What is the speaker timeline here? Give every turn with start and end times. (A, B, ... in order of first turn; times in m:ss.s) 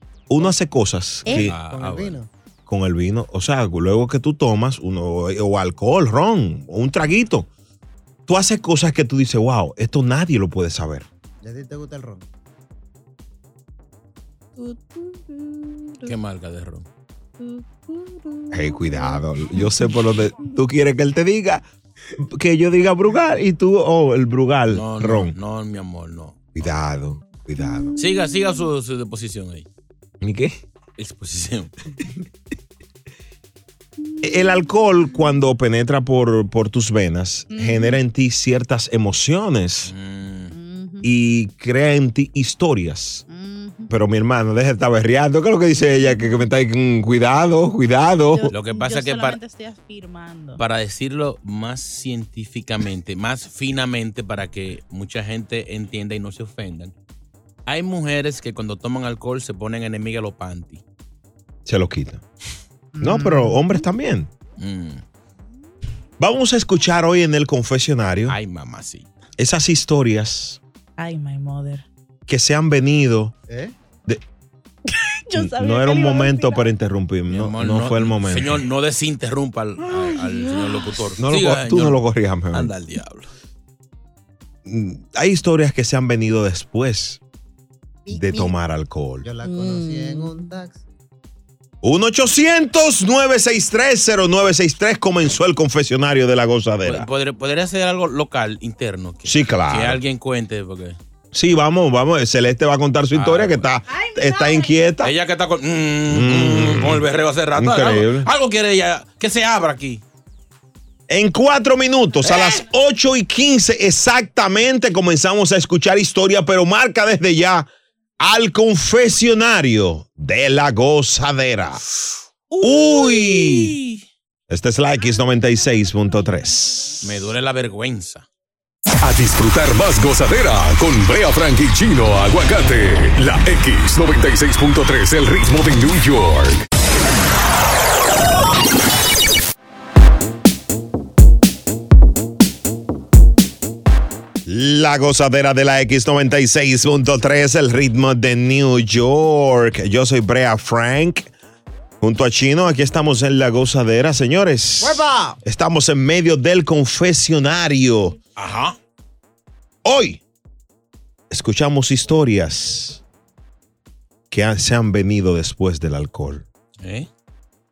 0:00.3-0:01.5 A
0:01.3-0:02.3 B
0:01.3-0:02.2 C
0:02.7-0:07.5 A
0:08.3-0:11.1 A
0:11.4-0:12.2 B
0:14.6-0:15.8 D
0:16.0-0:16.8 C
0:17.4-0:18.2 D
0:18.5-0:21.6 A
0:22.2-0:25.3 A
0:24.7-0:26.6 C
0:26.5-0:28.0 A
0:28.0-0:29.6 C
0:30.2-0:30.6 A
0:31.0-0:31.7 C
0:34.2-0:39.9 A
0:37.5-0:38.0 D
0:39.9-0:40.5 C
0:40.5-0:41.1 D
0:41.0-0:43.2 A
0:43.3-0:43.9 D
0:43.9-0:48.5 A
0:48.3-0:50.6 D
0:48.5-0:49.4 C
0:50.6-0:56.9 C
0:57.6-1:00.8 C
1:01.6-1:02.2 A
1:03.0-1:04.3 A
1:03.0-1:03.6 B
1:04.6-1:05.0 C
1:06.2-1:08.4 A
1:08.3-1:09.1 C
1:09.4-1:10.6 A
1:11.0-1:11.8 D
1:12.3-1:13.3 A
1:13.5-1:13.7 B
1:14.9-1:16.7 D
1:15.3-1:18.6 A
1:17.3-1:22.0 C
1:21.2-1:22.7 A
1:22.5-1:23.3 C
1:24.6-1:27.2 A
1:28.1-1:28.5 B
1:28.1-1:28.5 D
1:28.1-1:29.2 A
1:29.2-1:30.8 B
1:29.4-1:30.5 D
1:31.8-1:37.1 A
1:36.8-1:41.0 C
1:39.2-1:40.0 A
1:41.3-1:45.1 A
1:43.1-1:43.7 C
1:44.1-1:44.6 D
1:45.0-1:50.0 C
1:46.1-1:48.3 A
1:51.1-1:57.7 A
1:52.2-1:52.6 C
1:58.2-2:01.8 A
2:02.5-2:04.0 C
2:02.6-2:03.8 A
2:04.5-2:07.0 A
2:07.0-2:08.2 C
2:09.0-2:16.6 E
2:24.4-2:31.3 A
2:32.0-2:38.2 A
2:34.8-2:35.4 B
2:38.4-2:38.8 C
2:39.8-2:40.2 A
2:41.3-2:43.0 A
2:44.3-2:46.4 A
2:46.8-2:47.1 C